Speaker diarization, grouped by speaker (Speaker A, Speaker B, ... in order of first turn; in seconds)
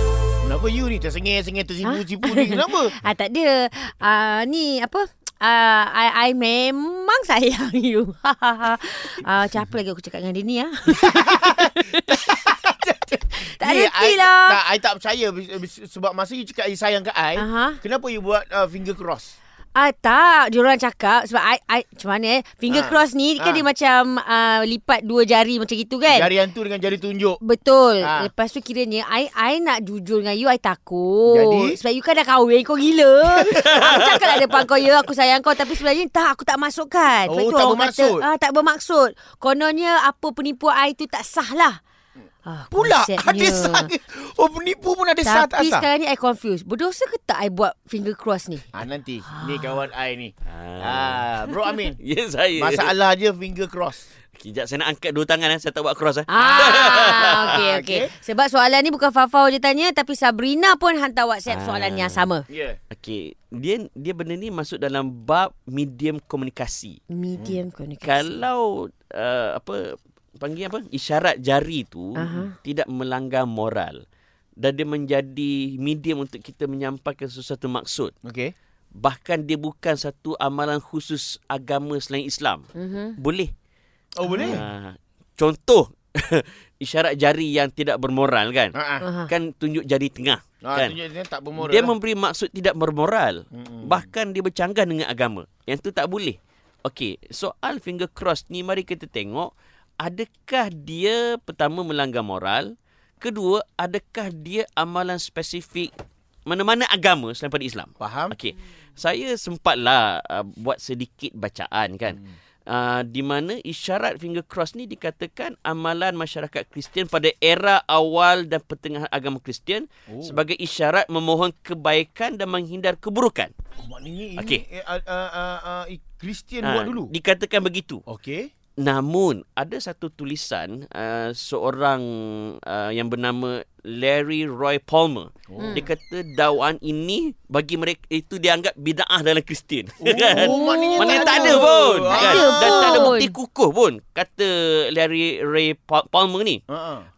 Speaker A: 0.4-2.9, 10.9-19.4, 22.7-23.6, 26.1-27.4, 28.0-28.3, 31.3-31.8, 37.3-38.2, 42.7-45.9, 48.7-52.0, 52.6-54.1, 56.4-58.1, 62.5-62.8, 78.2-78.5, 84.2-84.7, 88.8-89.1, 90.6-91.9, 93.5-94.1, 108.0-108.3, 120.1-120.4, 123.8-127.1, 128.1-128.5, 135.5-135.8, 140.0-143.2, 146.7-147.1
Speaker B: 1.8-12.2, 13.3-14.6, 17.4-17.8, 19.8-26.3, 27.4-41.8, 42.5-43.9, 45.2-48.7, 49.2-49.8, 56.3-62.5, 67.1-68.5, 72.2-72.5, 82.8-83.2, 84.2-84.6, 89.0-89.3, 135.6-135.9, 140.3-143.3
Speaker C: 33.4-34.5, 50.5-52.9, 54.4-57.6, 61.5-62.3, 62.9-67.0, 68.0-74.0, 74.6-78.1, 79.0-82.7, 83.2-83.5, 84.4-88.8, 89.3-91.0, 91.6-105.9, 106.5-123.5, 124.4-124.6, 126.6-128.0, 128.8-146.6